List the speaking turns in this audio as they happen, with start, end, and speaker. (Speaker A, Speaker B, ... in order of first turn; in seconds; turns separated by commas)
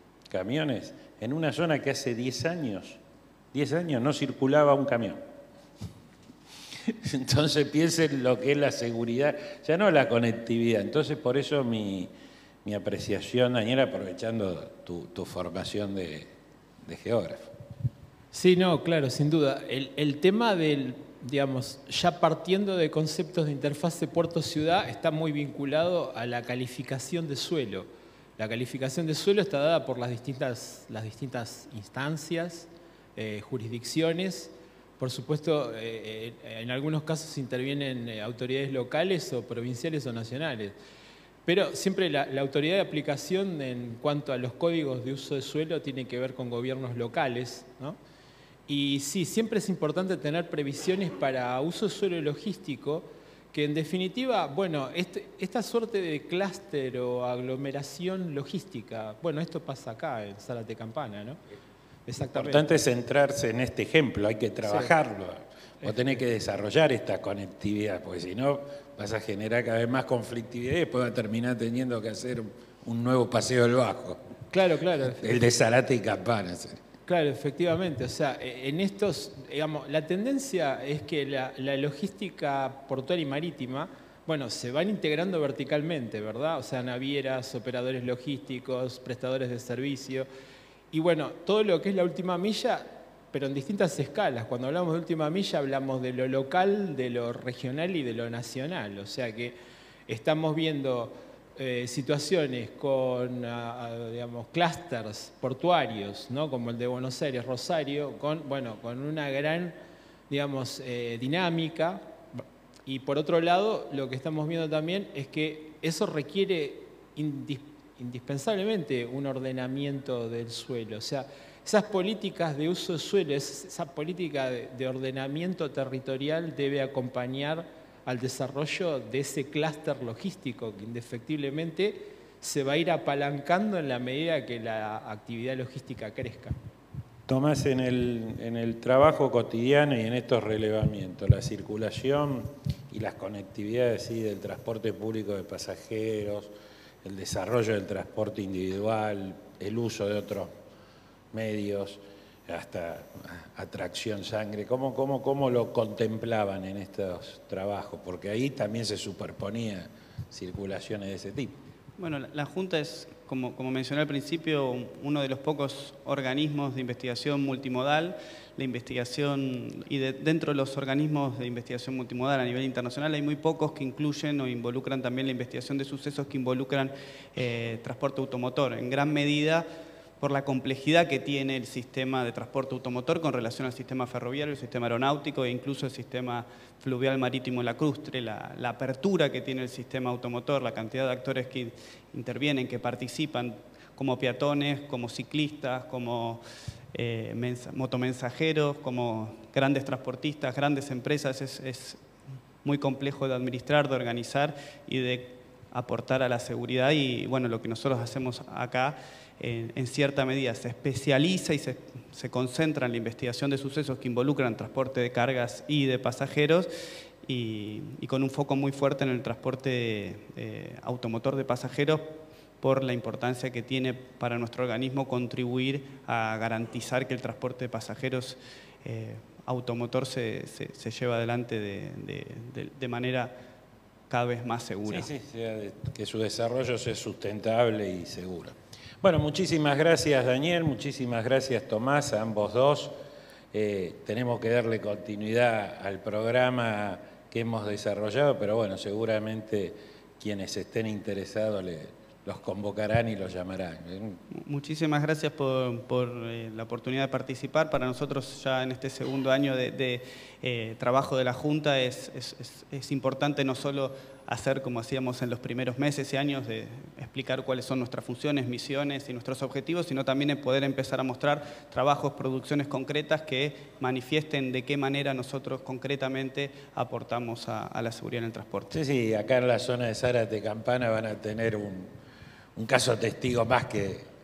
Speaker A: 0.3-3.0, Speaker A: 3.5-5.2, Speaker A: 6.8-12.1, Speaker A: 12.6-16.3, Speaker A: 16.9-17.5, Speaker B: 18.3-40.8, Speaker B: 41.5-48.0, Speaker B: 48.7-61.4, Speaker B: 62.1-62.8, Speaker A: 62.2-74.2, Speaker B: 64.6-64.9, Speaker B: 74.5-75.3, Speaker A: 75.1-76.8, Speaker B: 77.1-90.3, Speaker B: 90.9-99.5, Speaker B: 100.1-109.8, Speaker B: 110.3-136.6, Speaker A: 137.3-146.5, Speaker A: 147.0-150.5, Speaker A: 151.3-161.6, Speaker C: 162.0-179.7, Speaker C: 180.2-202.0, Speaker C: 202.6-216.7, Speaker C: 217.3-233.3, Speaker C: 234.1-235.1, Speaker A: 234.9-242.9, Speaker A: 243.5-254.2, Speaker C: 254.3-278.7, Speaker A: 278.7-281.9, Speaker A: 282.6-284.1